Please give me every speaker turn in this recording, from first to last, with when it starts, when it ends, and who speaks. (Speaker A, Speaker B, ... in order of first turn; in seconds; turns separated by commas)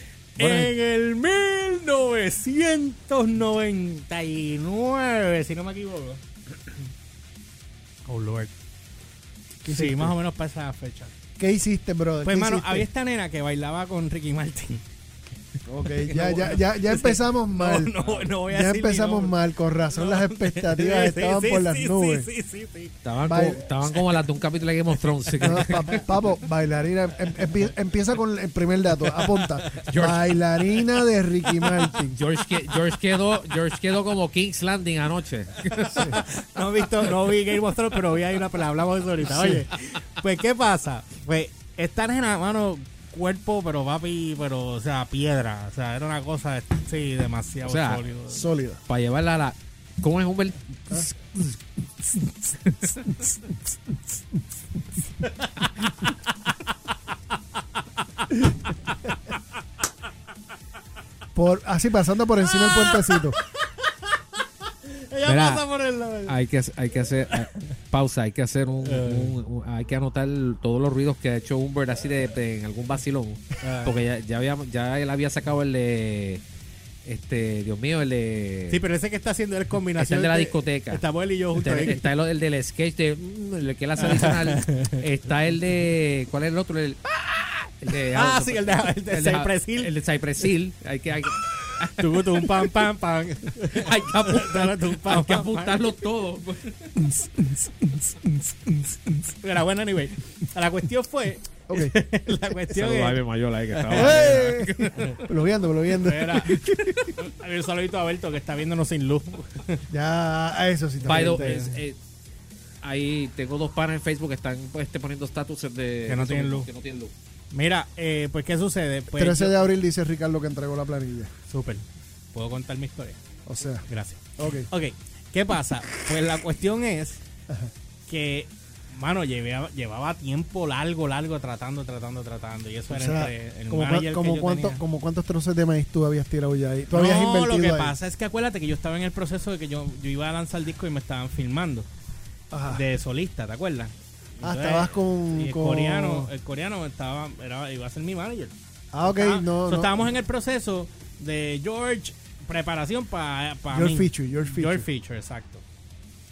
Speaker A: 0.4-6.8, Speaker B: 0.4-0.7, Speaker A: 8.1-8.5, Speaker B: 9.6-10.2, Speaker A: 9.7-11.1, Speaker B: 11.4-12.9, Speaker A: 12.2-14.8, Speaker B: 15.7-22.3, Speaker A: 15.9-23.0, Speaker C: 23.0-26.0, Speaker B: 23.3-23.8, Speaker A: 23.9-24.2, Speaker A: 24.9-26.0, Speaker B: 25.4-32.2, Speaker A: 29.2-30.1, Speaker C: 29.9-30.3, Speaker A: 30.8-31.9, Speaker C: 32.1-36.3, Speaker A: 35.9-48.5, Speaker C: 39.3-39.6, Speaker C: 47.6-48.0, Speaker B: 48.3-48.8, Speaker C: 48.9-51.6, Speaker C: 52.5-53.0, Speaker A: 55.2-56.5, Speaker A: 58.2-59.3, Speaker B: 61.4-63.4, Speaker A: 62.5-66.4, Speaker C: 65.2-65.6, Speaker C: 66.3-76.4, Speaker A: 68.8-69.3, Speaker A: 73.6-74.0, Speaker C: 77.0-78.8, Speaker A: 78.7-82.1, Speaker C: 80.0-81.0, Speaker C: 81.5-92.7, Speaker A: 84.0-85.0, Speaker A: 88.1-89.9, Speaker A: 92.0-96.0, Speaker C: 93.7-96.9, Speaker B: 97.0-99.1, Speaker A: 99.1-103.2, Speaker B: 101.7-102.0, Speaker C: 102.7-105.1, Speaker A: 103.7-105.2, Speaker B: 103.9-107.2, Speaker A: 105.9-109.9, Speaker B: 109.9-111.7, Speaker A: 111.0-111.8, Speaker C: 111.0-112.0, Speaker C: 112.8-117.1, Speaker A: 116.1-116.7, Speaker A: 117.5-119.7, Speaker B: 119.1-121.3, Speaker A: 121.5-123.2, Speaker B: 123.5-124.7, Speaker A: 123.9-127.2, Speaker A: 128.1-134.8, Speaker B: 132.9-138.0, Speaker A: 136.9-141.9, Speaker B: 142.5-142.9, Speaker A: 142.7-155.6, Speaker B: 144.4-146.3, Speaker B: 148.9-150.1, Speaker B: 153.7-154.9